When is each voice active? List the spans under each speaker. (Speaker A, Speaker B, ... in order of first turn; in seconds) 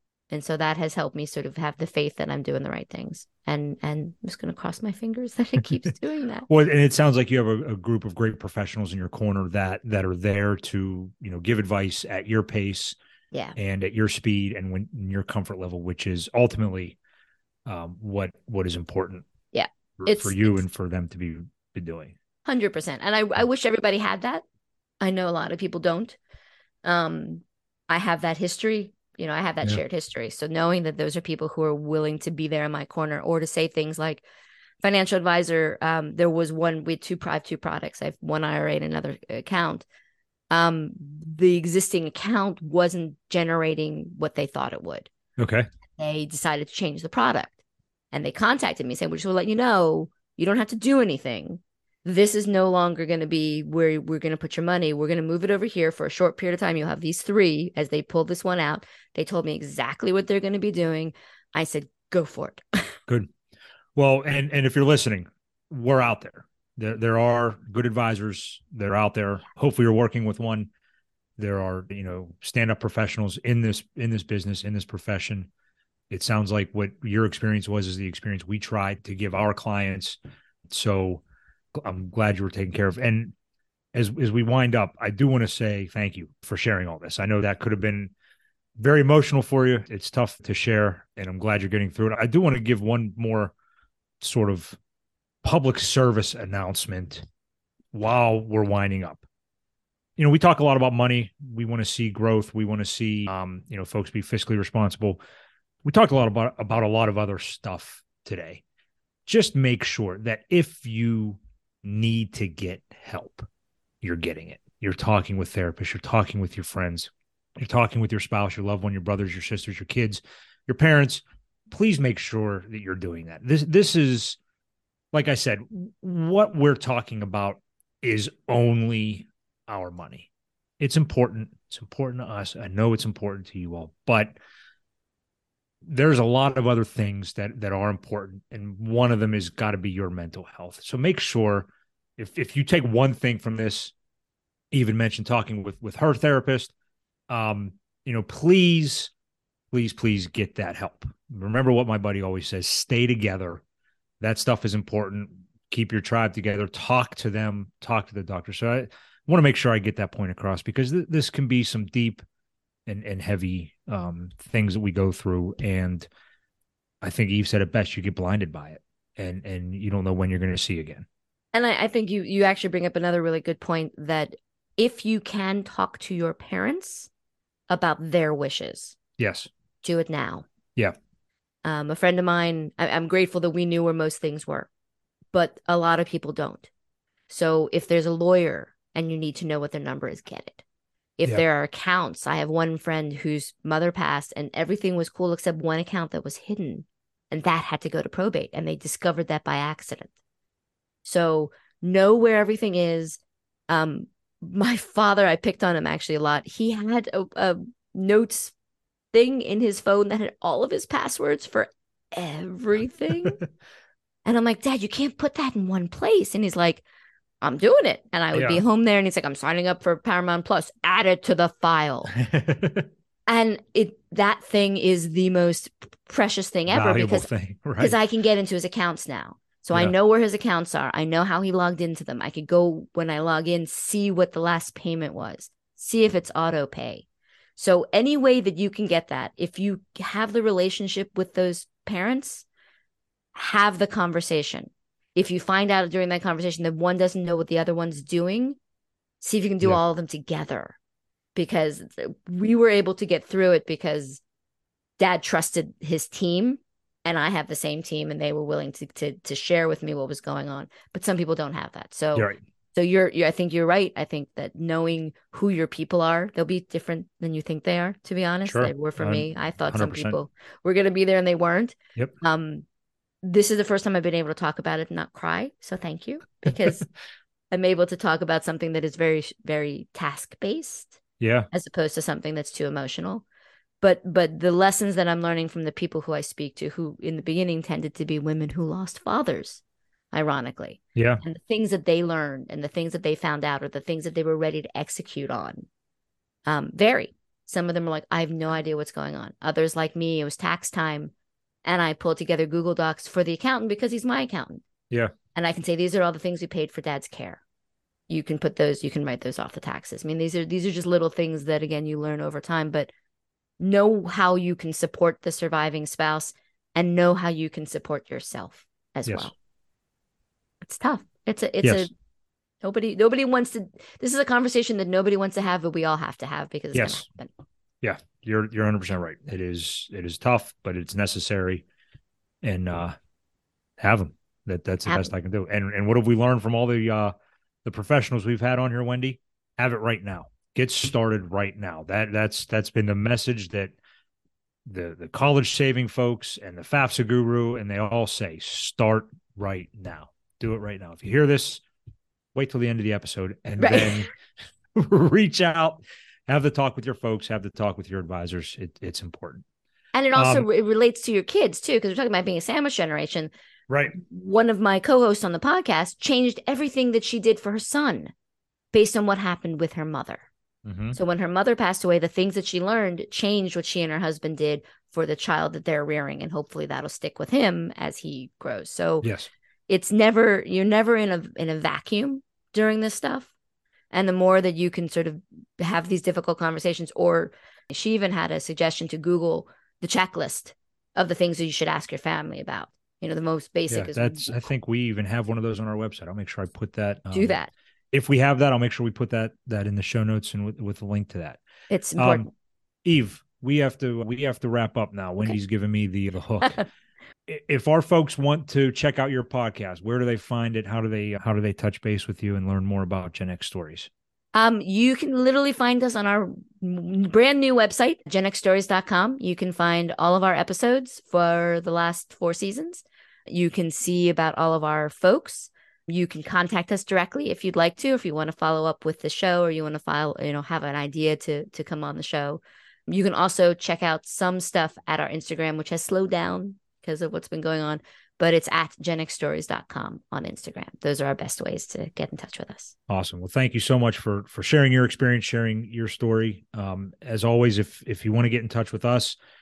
Speaker A: 0.3-6.5, 13.3-13.6, 19.5-20.6, 22.4-24.4, 25.0-26.2, 26.8-34.2, 34.8-39.9, 40.5-45.1, 46.0-47.6, 48.1-62.9, 171.5-177.1, 177.7-178.9, 179.8-180.4, 181.6-184.7, 185.3-186.7, 187.3-190.6, 191.2-200.1, 201.0-208.5, 209.1-213.4, 214.2-216.8, 217.4-222.1, 223.3-227.3, 227.8-237.0, 237.6-242.4, 243.3-248.6, 249.2-250.8, 251.3-254.2, 255.0-272.6, 273.2-276.9, 277.5-281.0, 281.5-283.2, 283.8-289.6, 290.1-295.6, 296.4-301.1, 301.6-304.6, 305.3-307.4, 308.1-312.9, 313.6-319.3, 320.6-321.9, 322.6-327.3, 334.9-335.1, 353.6-354.1, 359.9-363.3, 363.9-368.1, 368.7-370.3, 370.9-379.1, 379.7-383.3, 383.9-394.4, 397.1-397.5, 401.7-402.3, 414.3-442.7
Speaker B: 6.5-12.9, 13.6-16.9, 17.6-19.2, 20.0-22.1, 45.4-45.7, 64.0-70.7, 71.4-75.5, 76.1-80.2, 80.7-81.2, 81.7-83.3, 83.9-88.1, 88.8-93.5, 94.2-94.8, 95.4-97.2, 97.9-99.2, 100.2-105.2, 105.8-108.6, 109.2-113.5, 114.0-124.4, 125.1-130.3, 130.8-134.3, 135.8-143.9, 144.7-146.7, 147.3-149.1, 149.7-153.6, 154.2-162.2, 162.9-166.1, 167.0-171.1, 179.2-179.5, 218.3-218.6, 222.1-222.9, 226.7-227.9, 268.4-270.1, 281.2-281.5, 290.9-291.2, 326.7-327.0, 327.8-331.6, 332.4-332.9, 333.8-337.1, 337.6-343.7, 344.6-351.6, 352.3-354.1, 354.8-359.4, 360.1-360.4, 363.7-364.0, 370.6-371.0, 379.0-379.3, 393.7-397.4, 397.9-401.4, 402.0-402.3, 402.8-406.6, 407.3-413.9, 442.9-449.1